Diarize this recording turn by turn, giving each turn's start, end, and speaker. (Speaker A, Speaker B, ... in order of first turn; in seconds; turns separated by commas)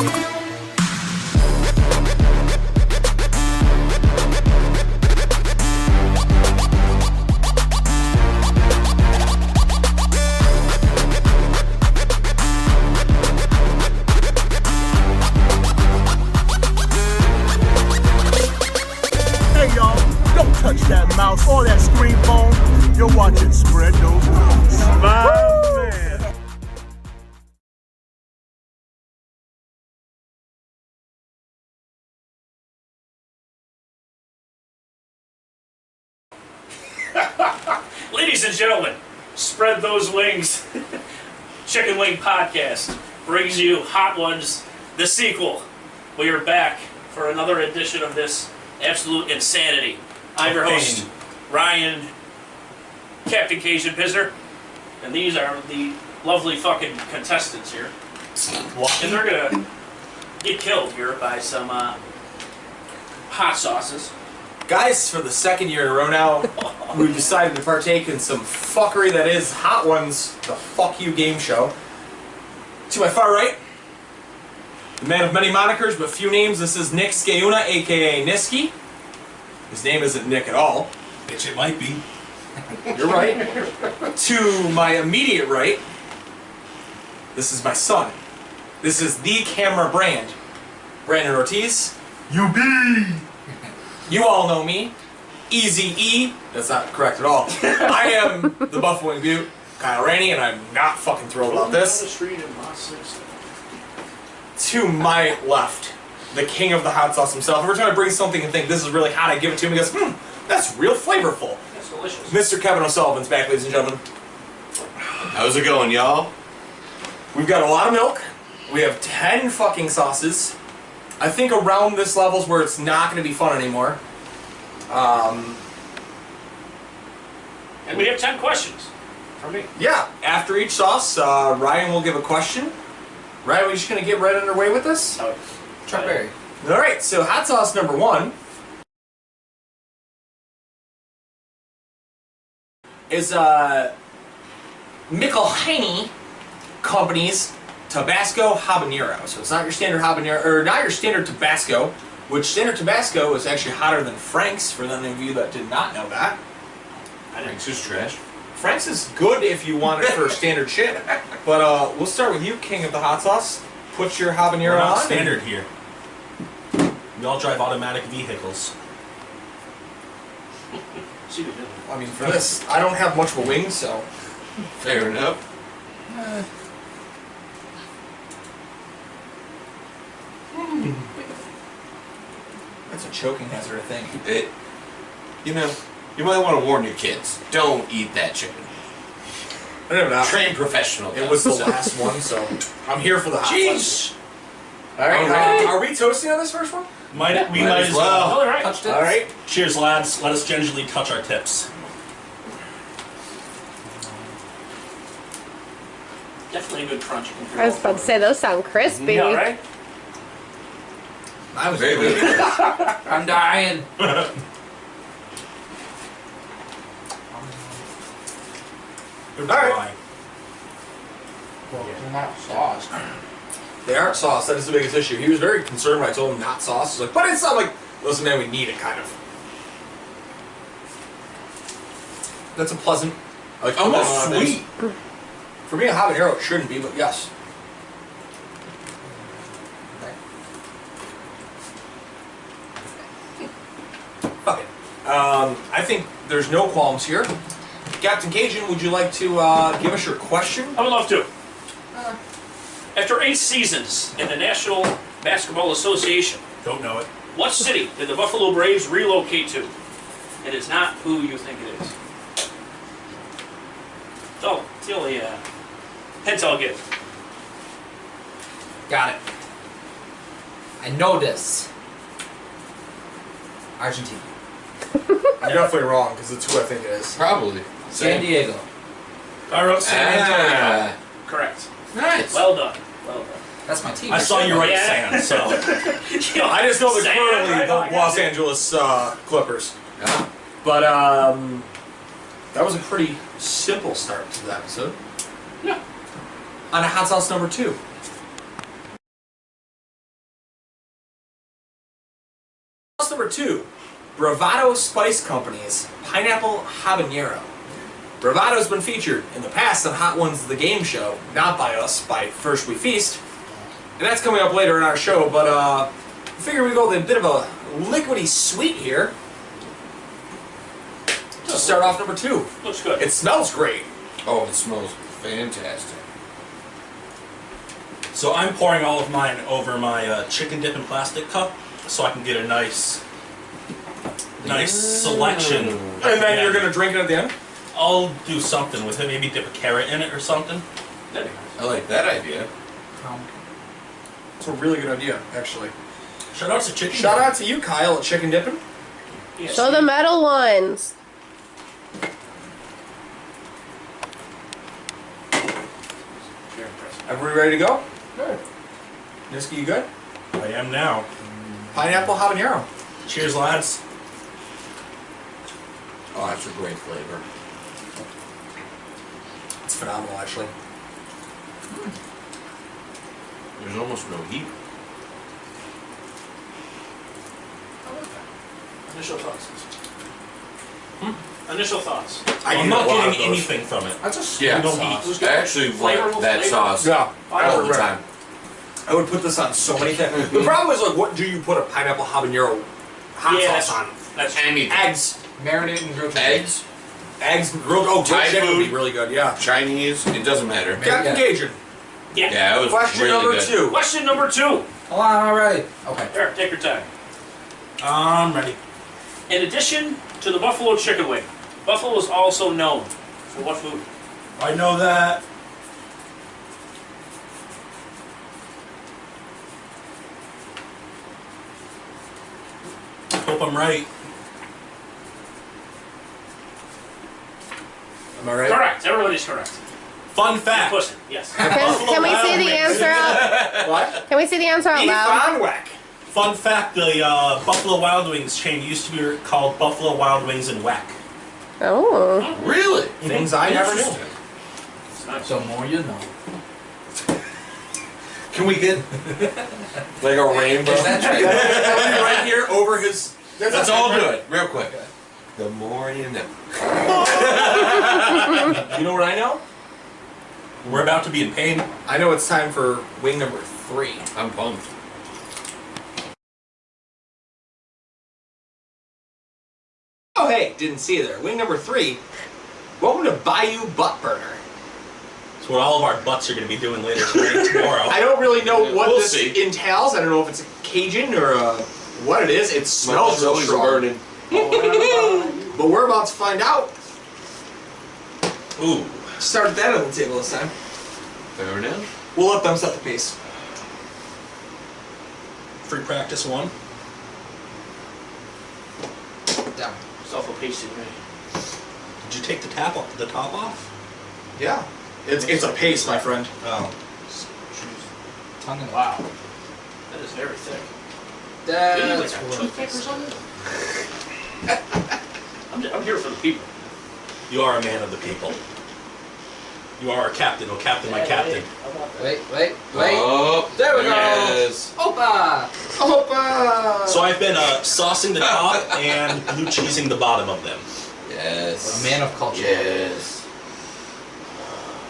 Speaker A: 19.5-26.2, Speaker B: 38.1-41.0, Speaker B: 41.6-52.1, Speaker C: 50.4-51.1, Speaker B: 53.2-54.3, Speaker B: 55.0-57.9, Speaker C: 58.7-59.2, Speaker B: 59.0-59.6, Speaker B: 60.4-62.0, Speaker B: 63.3-64.1, Speaker D: 64.7-71.7, Speaker D: 72.9-73.6, Speaker D: 75.0-78.7, Speaker D: 79.7-80.9, Speaker C: 81.3-82.0, Speaker D: 82.9-83.6, Speaker D: 84.1-85.8, Speaker D: 87.3-88.2, Speaker D: 88.8-90.3, Speaker D: 91.0-93.2, Speaker D: 94.0-94.9, Speaker D: 95.5-102.0, Speaker B: 101.4-103.4, Speaker D: 104.5-111.6, Speaker B: 111.7-112.4, Speaker D: 112.3-114.0, Speaker E: 115.3-116.3, Speaker D: 117.3-120.5, Speaker D: 121.2-124.0, Speaker D: 124.9-125.6, Speaker B: 127.8-129.7, Speaker D: 129.8-132.7, Speaker D: 133.4-135.2, Speaker B: 135.1-136.2, Speaker F: 135.8-136.3, Speaker D: 136.6-138.3, Speaker D: 143.1-143.9, Speaker D: 145.1-146.1, Speaker D: 146.8-156.4, Speaker B: 157.3-157.8, Speaker E: 157.4-158.2, Speaker D: 158.5-165.4, Speaker C: 164.6-165.7, Speaker C: 167.1-168.7, Speaker B: 171.3-171.8, Speaker D: 171.8-174.1, Speaker C: 172.2-172.5, Speaker E: 174.8-175.4, Speaker F: 176.1-176.4, Speaker D: 182.9-184.2, Speaker E: 184.2-184.5, Speaker E: 185.4-188.7, Speaker D: 189.9-190.5, Speaker E: 190.2-191.8, Speaker D: 191.1-194.0, Speaker B: 193.4-194.1, Speaker D: 194.9-196.9, Speaker E: 195.1-195.8, Speaker C: 197.1-198.4, Speaker E: 197.5-198.6, Speaker B: 198.2-198.7, Speaker F: 198.6-199.2, Speaker D: 198.8-199.3, Speaker C: 199.4-201.7, Speaker B: 206.5-208.2, Speaker G: 207.6-209.5, Speaker B: 209.0-209.6, Speaker F: 211.5-213.9, Speaker E: 211.7-212.7, Speaker F: 217.3-217.8, Speaker C: 219.3-219.9, Speaker D: 219.4-219.8, Speaker F: 221.7-222.9, Speaker D: 223.8-229.1, Speaker D: 232.5-234.6, Speaker E: 233.7-234.7, Speaker C: 233.9-234.5, Speaker D: 235.7-237.3, Speaker F: 239.9-240.2, Speaker D: 244.4-247.3, Speaker D: 248.0-250.8, Speaker B: 250.7-251.3, Speaker B: 252.9-256.4, Speaker C: 256.6-257.1, Speaker B: 257.3-259.7, Speaker B: 260.4-261.9, Speaker B: 264.4-265.4, Speaker B: 266.2-266.8, Speaker F: 268.9-269.2, Speaker F: 270.8-271.7, Speaker F: 273.8-274.3, Speaker D: 275.4-277.2, Speaker E: 277.1-278.4, Speaker F: 277.9-278.6, Speaker C: 279.5-280.8, Speaker E: 279.8-280.9, Speaker B: 281.2-281.7, Speaker E: 281.9-282.5, Speaker B: 282.3-283.4, Speaker F: 283.6-284.7, Speaker C: 284.1-285.8, Speaker B: 284.5-288.4, Speaker D: 286.3-289.7, Speaker E: 290.0-290.3, Speaker D: 290.6-291.6, Speaker D: 292.5-295.0, Speaker D: 296.7-297.8, Speaker D: 303.0-307.5, Speaker D: 308.2-313.2, Speaker D: 314.0-319.1, Speaker B: 321.4-321.9, Speaker D: 321.4-323.9, Speaker B: 322.6-323.1, Speaker E: 324.2-326.0, Speaker C: 328.1-333.0, Speaker C: 334.4-336.8, Speaker E: 334.4-336.0, Speaker D: 336.0-337.3, Speaker C: 337.7-340.6, Speaker B: 341.1-341.5, Speaker E: 341.6-342.5, Speaker F: 342.9-343.4, Speaker D: 344.4-345.7, Speaker C: 346.3-347.4, Speaker D: 346.9-348.6, Speaker B: 349.4-349.9, Speaker G: 349.4-350.9, Speaker B: 356.5-357.0, Speaker D: 357.1-357.8, Speaker D: 359.3-359.9, Speaker C: 360.3-361.1, Speaker D: 361.7-362.7, Speaker C: 363.1-363.8, Speaker E: 366.1-367.2, Speaker D: 369.6-370.5, Speaker E: 373.6-374.5, Speaker F: 377.8-378.2, Speaker B: 378.8-379.6, Speaker B: 381.4-382.2, Speaker D: 382.4-383.5, Speaker C: 382.4-385.1, Speaker F: 384.0-385.1, Speaker E: 384.4-388.0, Speaker B: 385.0-387.8, Speaker D: 386.8-387.9, Speaker D: 388.8-393.9, Speaker B: 393.2-394.6, Speaker E: 394.3-394.9, Speaker D: 394.7-395.2, Speaker F: 395.4-396.6, Speaker E: 396.1-396.6, Speaker D: 397.2-399.4, Speaker E: 398.0-398.8, Speaker E: 399.4-401.0, Speaker F: 400.7-401.3, Speaker D: 400.8-401.6, Speaker B: 402.1-402.4, Speaker E: 402.2-403.6, Speaker D: 402.6-403.8, Speaker B: 403.7-404.7, Speaker F: 404.9-406.1, Speaker B: 406.1-406.9, Speaker C: 407.8-408.6, Speaker B: 409.3-413.8, Speaker C: 414.4-415.2, Speaker C: 423.1-423.9, Speaker D: 428.2-428.6, Speaker B: 428.4-429.6, Speaker C: 430.1-430.8, Speaker B: 430.5-431.4, Speaker G: 431.4-433.5, Speaker C: 431.4-433.2, Speaker D: 431.4-432.4, Speaker E: 432.7-433.9, Speaker D: 433.0-434.0, Speaker G: 434.1-435.3, Speaker D: 434.7-435.8, Speaker C: 436.1-440.9, Speaker G: 441.6-442.3, Speaker E: 442.3-443.0, Speaker C: 443.0-444.0, Speaker D: 443.0-444.0, Speaker B: 444.9-445.3, Speaker F: 445.2-446.1, Speaker E: 448.3-448.9, Speaker E: 450.0-452.3, Speaker F: 450.3-452.0, Speaker D: 450.9-454.2, Speaker E: 453.4-454.7, Speaker E: 455.4-458.4, Speaker D: 456.9-459.4, Speaker C: 460.6-461.7, Speaker D: 461.9-464.1, Speaker E: 464.1-464.6, Speaker D: 470.1-472.0, Speaker D: 472.8-474.4, Speaker C: 475.4-478.2, Speaker D: 477.6-486.7, Speaker E: 478.4-479.4, Speaker E: 482.8-484.0, Speaker F: 484.7-485.4, Speaker E: 484.8-485.2, Speaker C: 488.6-488.9, Speaker E: 488.7-488.9, Speaker D: 489.2-490.5, Speaker E: 491.3-491.9, Speaker D: 492.1-493.1, Speaker C: 495.6-496.5, Speaker F: 499.5-499.8, Speaker B: 500.0-500.9, Speaker C: 502.0-503.6, Speaker D: 504.3-506.3, Speaker C: 505.2-505.9, Speaker C: 506.4-506.7, Speaker F: 507.1-507.8, Speaker F: 508.4-509.1, Speaker B: 509.9-510.7, Speaker F: 511.4-513.1, Speaker B: 511.6-513.1, Speaker B: 515.5-516.5, Speaker C: 517.3-518.4, Speaker C: 519.8-521.5, Speaker B: 520.8-522.2, Speaker F: 522.0-525.5, Speaker E: 522.7-524.7, Speaker D: 525.7-527.1, Speaker C: 526.9-530.6, Speaker E: 528.2-528.8, Speaker E: 531.0-533.2, Speaker F: 531.7-532.9